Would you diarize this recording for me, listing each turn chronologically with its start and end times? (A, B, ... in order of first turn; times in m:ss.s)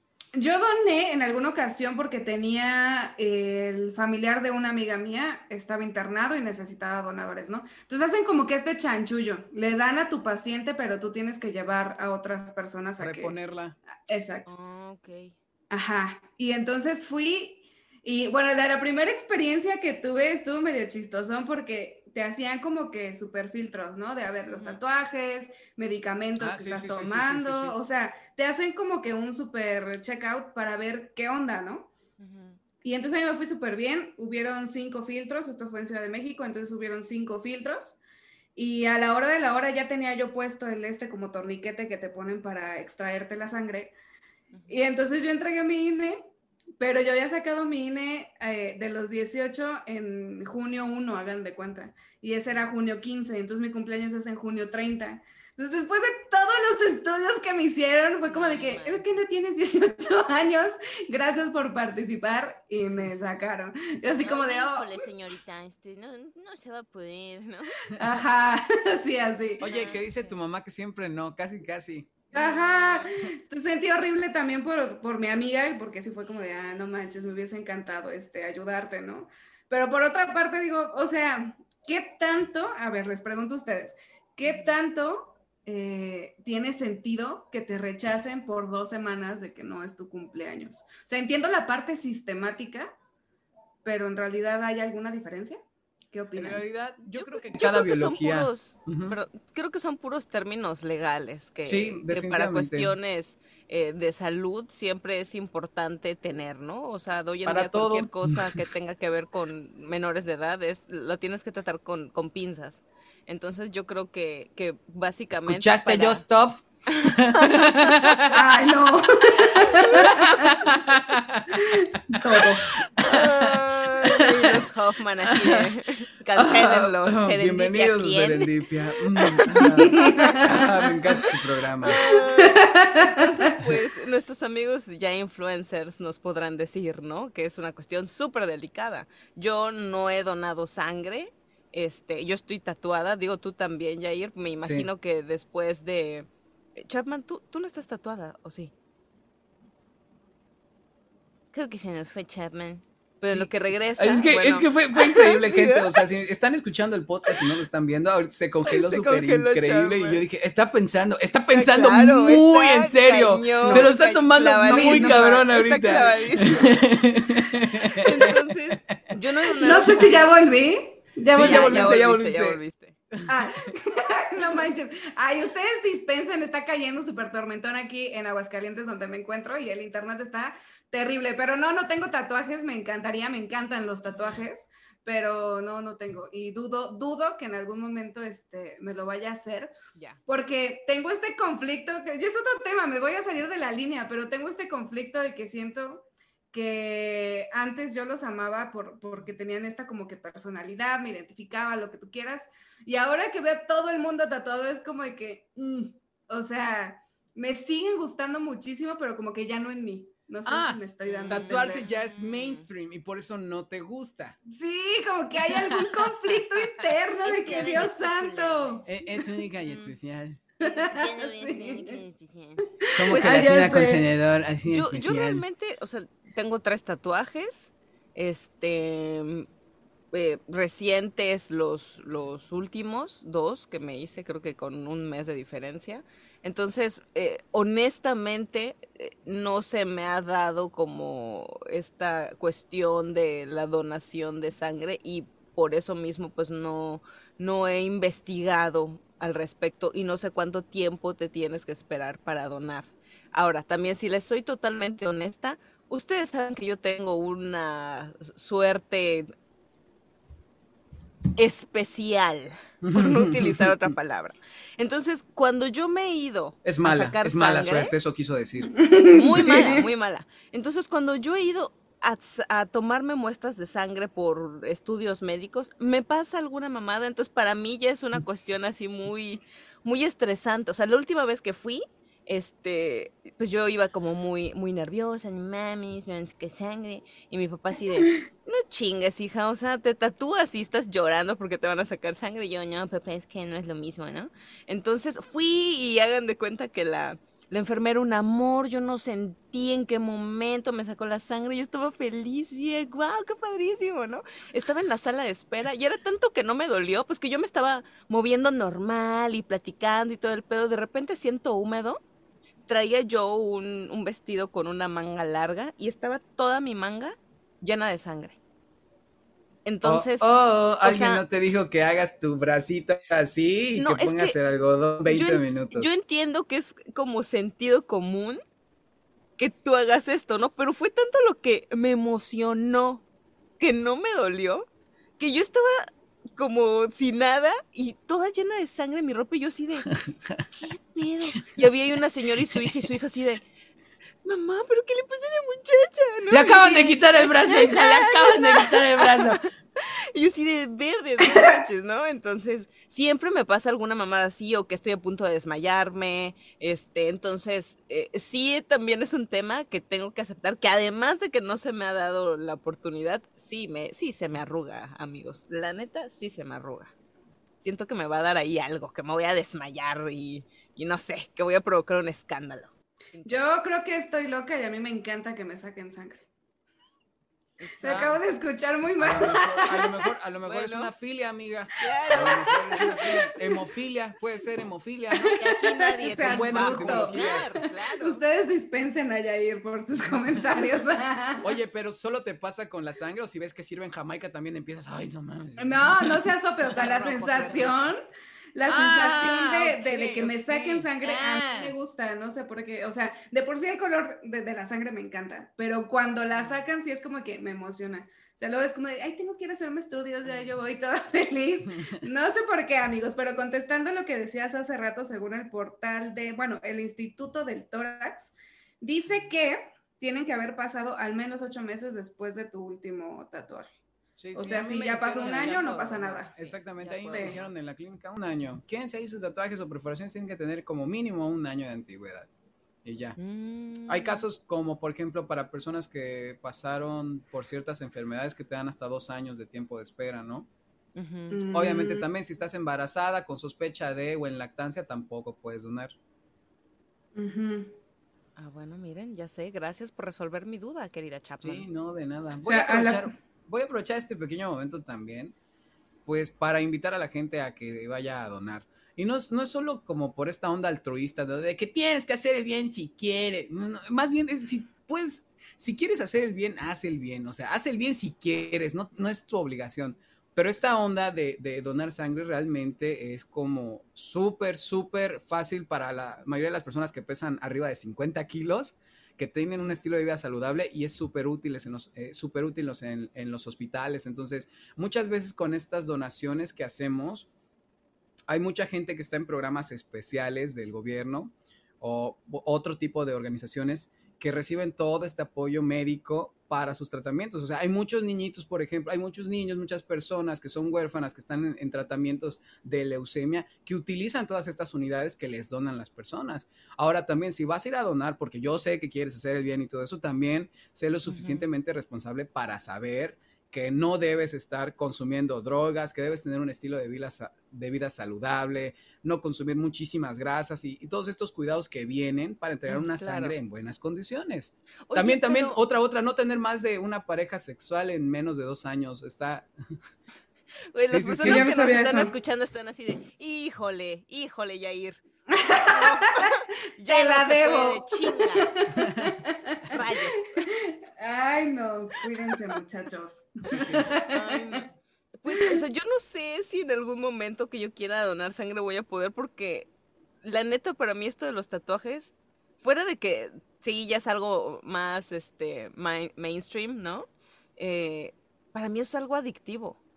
0:00.3-0:13.3 A
0:13.0-0:13.8 B
0:14.0-0:14.5 A
0:14.5-0:15.3 C
0:15.7-0:31.9 A
0:24.5-0:24.8 C
0:26.4-0:27.8 B
0:32.2-0:32.6 C
0:32.8-0:38.0 A
0:38.6-0:43.9 A
0:44.5-0:44.8 C
0:44.7-0:46.3 A
0:46.8-1:05.0 A
0:58.3-0:59.2 C
1:04.2-1:07.8 C
1:08.0-1:09.6 A
1:09.6-1:12.1 B
1:09.6-1:10.5 C
1:12.3-1:13.1 C
1:12.3-1:32.9 A
1:24.4-1:24.7 C
1:33.8-1:35.6 A
1:36.1-1:36.6 A
1:36.4-1:39.2 B
1:37.1-1:56.2 C
1:41.6-1:42.9 B
1:47.4-1:48.5 B
1:55.3-1:58.4 B
1:57.0-1:58.2 C
1:58.3-2:00.6 A
1:59.6-2:00.2 C
2:00.2-2:04.6 B
2:01.5-2:02.7 A
2:03.0-2:08.5 C
2:05.3-2:05.7 B
2:06.4-2:12.0 B
2:09.2-2:10.4 C
2:09.9-2:10.6 A
2:11.8-2:28.7 C
2:11.9-2:13.5 A
2:31.5-2:35.9 C
2:33.2-2:48.4 B
2:38.7-2:40.2 C
2:41.5-2:46.8 C
2:43.6-2:43.9 A
2:44.7-2:45.4 A
2:47.8-2:50.3 C
2:49.5-2:49.9 B
2:49.6-2:51.9 A
2:51.3-2:53.0 C
2:51.3-2:52.6 B
2:53.3-3:09.7 A
3:04.1-3:04.4 C
3:09.9-3:10.2 C
3:10.3-3:31.8 A
3:30.4-3:34.4 B
3:31.0-3:32.7 C
3:34.5-3:38.8 A
3:37.2-3:38.9 C
3:38.8-3:40.4 B
3:39.6-3:39.9 C
3:40.6-3:42.0 A
3:40.6-3:43.5 C
3:42.8-3:44.0 A
3:42.9-3:45.4 B
3:44.7-3:49.5 C
3:50.1-4:19.3 C
4:21.4-4:27.9 C
4:22.8-4:23.7 B
4:26.6-4:28.7 B
4:28.7-4:29.8 A
4:29.1-5:12.0 C
5:12.7-5:18.4 C
5:19.6-5:20.3 C
5:19.8-5:25.9 B
5:20.8-5:21.2 C
5:23.7-5:24.3 C
5:25.0-5:28.4 C
5:29.4-5:33.0 C
5:33.6-5:34.7 C
5:35.2-5:39.9 C
5:39.9-5:40.4 B
5:40.6-5:43.4 C
5:44.2-6:06.9 C
5:46.3-5:49.4 B
5:51.3-5:51.6 A
6:07.6-6:13.5 C
6:13.2-6:16.2 A
6:17.6-6:18.2 C
6:17.8-6:20.1 A
6:19.0-6:25.4 B
6:20.4-6:20.9 C
6:21.8-6:23.3 C
6:22.1-6:23.3 A
6:25.1-6:31.6 A
6:25.4-6:28.2 C
6:26.2-6:27.5 B
6:30.0-6:30.3 B
6:31.4-6:36.3 B
6:35.6-6:38.0 A
6:36.7-6:37.8 C
6:38.5-7:03.7 A
6:38.7-6:41.7 B
6:46.3-6:46.6 C
6:50.2-6:50.5 C
7:04.2-7:04.6 B
7:04.3-7:06.3 A
7:04.4-7:07.5 C
7:06.4-7:12.3 B
7:07.0-7:07.3 A
7:12.8-7:13.2 B
7:13.2-7:14.2 C
7:13.9-7:20.5 B
7:20.9-7:21.4 C
7:21.3-7:22.0 A
7:21.5-7:25.9 B
7:27.2-7:27.7 A
7:28.4-7:31.6 C
7:31.4-7:35.3 B
7:32.4-7:33.1 A
7:36.0-8:07.3 B
8:08.3-8:49.8 B
8:31.1-8:31.5 C
8:42.7-8:43.3 C
8:44.9-8:45.6 C
8:50.7-8:58.5 C
8:50.9-8:51.5 B
8:51.0-8:52.1 A
8:55.3-9:04.6 A
8:58.8-8:59.1 B
8:59.7-9:00.5 C
9:03.4-9:03.9 B
9:04.0-9:09.7 C
9:05.3-9:05.6 A
9:10.2-9:19.8 C